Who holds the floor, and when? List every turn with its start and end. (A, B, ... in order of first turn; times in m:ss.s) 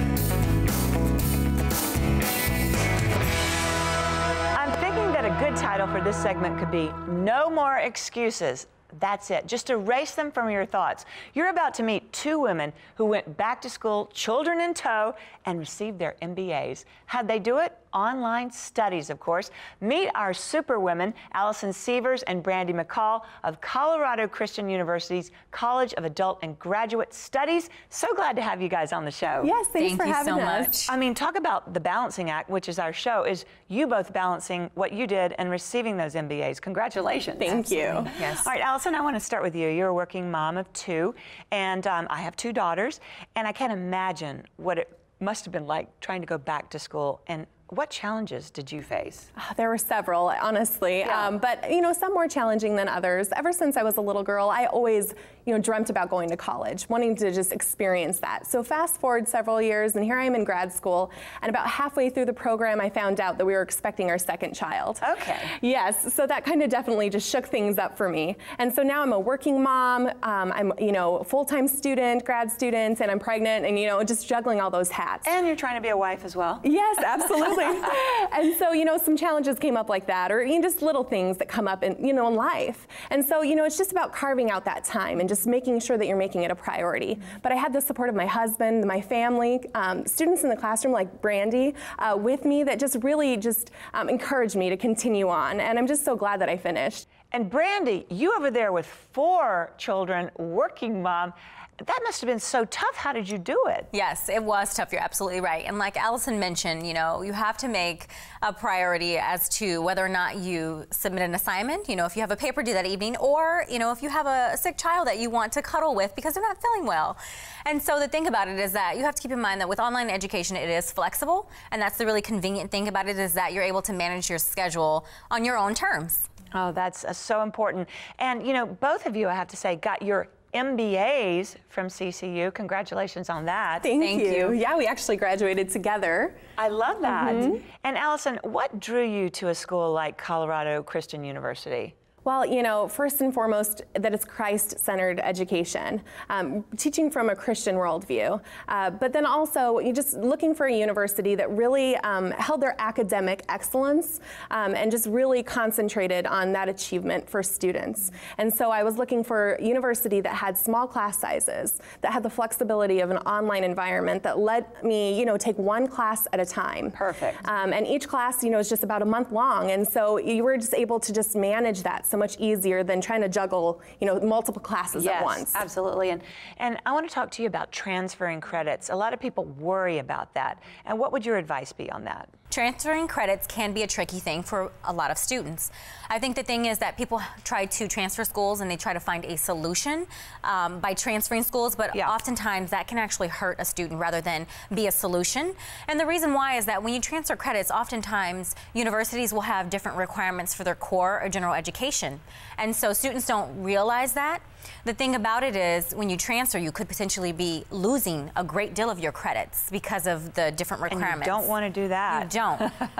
0:04.5-0:29.5 A
0:29.4-0:30.8 B
0:29.8-0:30.9 C
0:30.9-0:49.3 A
0:37.4-0:38.1 B
0:37.6-0:38.5 C
0:49.4-1:15.3 B
0:51.0-0:51.3 A
1:05.0-1:05.5 A
1:15.2-1:16.6 A
1:16.6-1:37.0 B
1:17.3-1:17.7 A
1:37.3-1:43.9 A
1:43.9-2:06.3 C
2:06.5-2:13.9 A
2:13.8-2:16.4 B
2:14.0-2:14.6 C
2:16.6-2:21.9 A
2:17.0-2:17.6 B
2:22.2-2:55.6 B
2:46.9-2:47.4 A
2:54.9-3:02.3 A
3:02.5-3:31.5 C
3:30.9-3:32.8 A
3:32.1-3:32.7 C